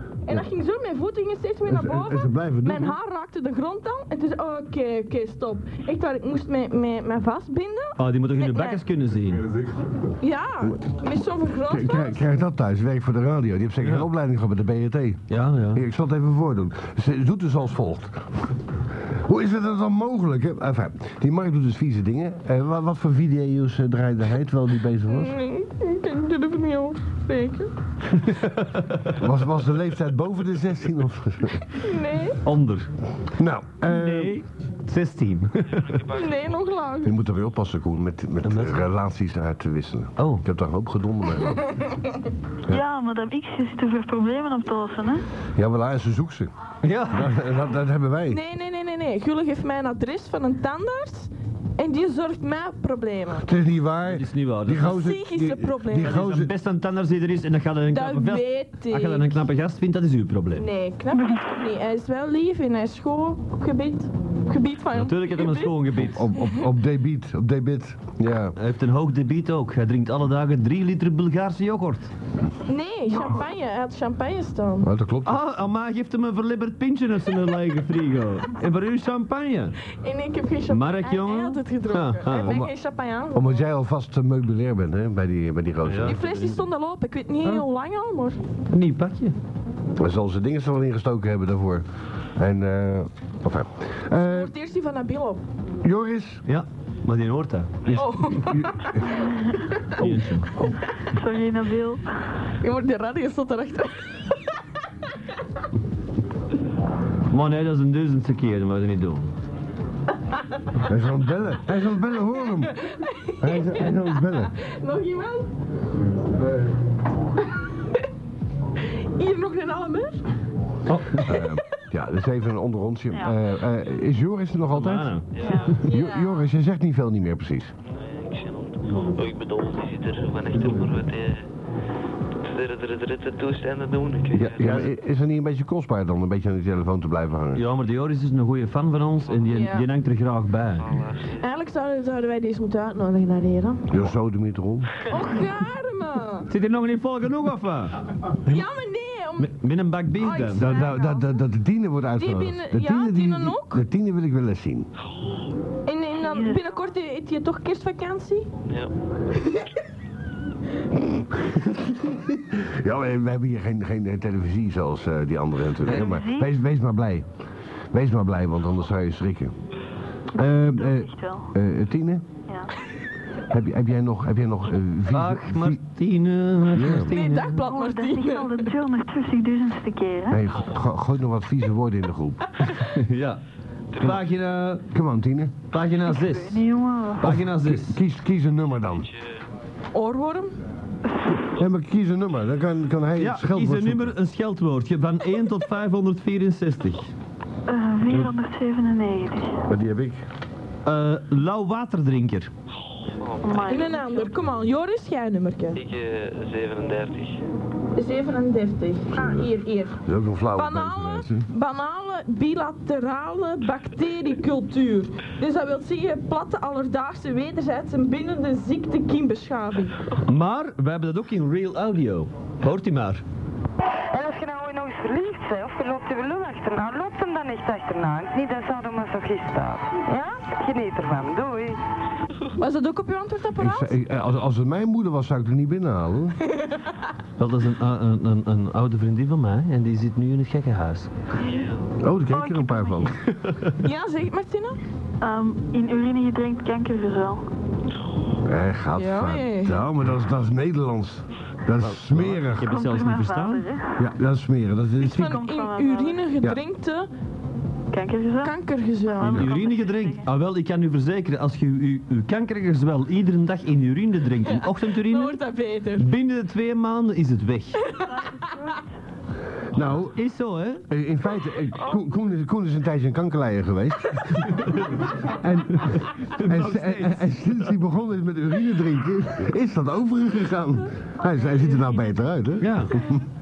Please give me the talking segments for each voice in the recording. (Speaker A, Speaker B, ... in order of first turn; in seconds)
Speaker A: 0.2-8.8, 10.2-12.2, 25.1-27.7, 31.7-32.4, 36.1-37.2, 48.3-53.5, 54.8-56.2, 57.9-59.4, 60.5-65.9, 72.7-74.9, 79.9-83.5, 86.0-88.4, 94.2-95.4, 97.9-100.2, 102.6-104.3, 112.6-115.5, 118.8-120.2, 125.7-126.4, 139.5-139.9, 141.4-143.9, 145.1-146.5, 148.4-149.5, 150.1-151.3, 152.2-153.8, 155.8-158.5, 177.1-178.7, 189.9-190.5, 203.7-205.8, 207.9-210.0, 210.5-220.0, 232.6-233.9, 243.8-244.8, 248.9-249.8, 255.0-257.1, 258.4-259.5, 264.5-266.1, 267.8-268.4
Speaker B: 1.7-3.0, 11.7-18.2, 19.1-25.4, 29.1-31.6, 33.3-34.4, 37.0-41.6, 45.5-46.5, 47.1-48.4, 53.4-56.5, 66.0-68.5, 74.8-75.4, 82.3-82.7, 83.3-86.2, 90.0-94.5, 95.8-96.4, 97.8-99.4, 110.8-112.8, 113.4-114.5, 121.2-125.2, 125.8-127.7, 134.3-137.6, 143.9-145.0, 150.6-154.9, 160.9-167.3, 167.9-169.5, 170.3-172.2, 173.5-175.8, 176.7-177.1, 180.3-182.5, 184.9-185.5, 187.2-189.1, 191.5-194.1, 198.1-198.3, 199.7-200.2, 209.1-209.5, 210.0-211.5, 233.6-236.4, 242.0-243.2, 248.4-252.8, 254.0-255.4, 269.7-270.2, 270.9-274.5, 275.2-283.2
Speaker C: 8.0-9.5, 13.8-14.1, 15.3-15.8, 28.1-29.2, 32.4-32.9, 33.9-36.0, 38.4-38.8, 40.2-40.4, 46.8-47.3, 54.0-55.0, 56.0-60.7, 64.9-66.3, 68.5-72.1, 75.2-79.8, 80.7-82.5, 85.8-86.6, 88.7-89.3, 96.5-97.9, 99.9-100.5, 107.3-109.3, 120.9-121.2, 124.7-125.3, 134.6-134.9, 137.5-140.9, 146.5-148.0, 149.4-150.8, 175.1-177.6, 182.6-183.4, 184.0-184.8, 185.7-186.6, 187.2-188.0, 193.2-197.1, 200.8-202.5, 220.2-223.2, 237.4-241.1, 243.3-243.8, 251.8-253.6, 259.3-265.4, 266.0-267.8, 270.1-270.8, 274.3-275.1, 275.7-277.7, 282.6-283.1
Speaker D: 35.7-36.7, 125.3-125.8, 127.9-131.5, 132.4-134.6, 140.8-141.4, 158.7-158.9, 180.5-180.8, 183.9-184.2, 188.9-189.4, 203.2-204.3, 205.7-207.4, 241.4-241.8
Speaker E: 42.7-45.2, 101.0-102.1, 125.4-125.7, 156.2-156.9, 165.8-166.5, 170.4-171.5, 177.6-180.4, 186.0-187.3, 197.7-199.6, 203.4-204.1, 241.4-241.7, 242.3-243.1, 245.2-247.4, 252.6-254.0, 255.1-256.2, 257.9-258.6, 259.1-260.3, 268.0-268.9, 271.8-272.0
Speaker F: 224.1-231.8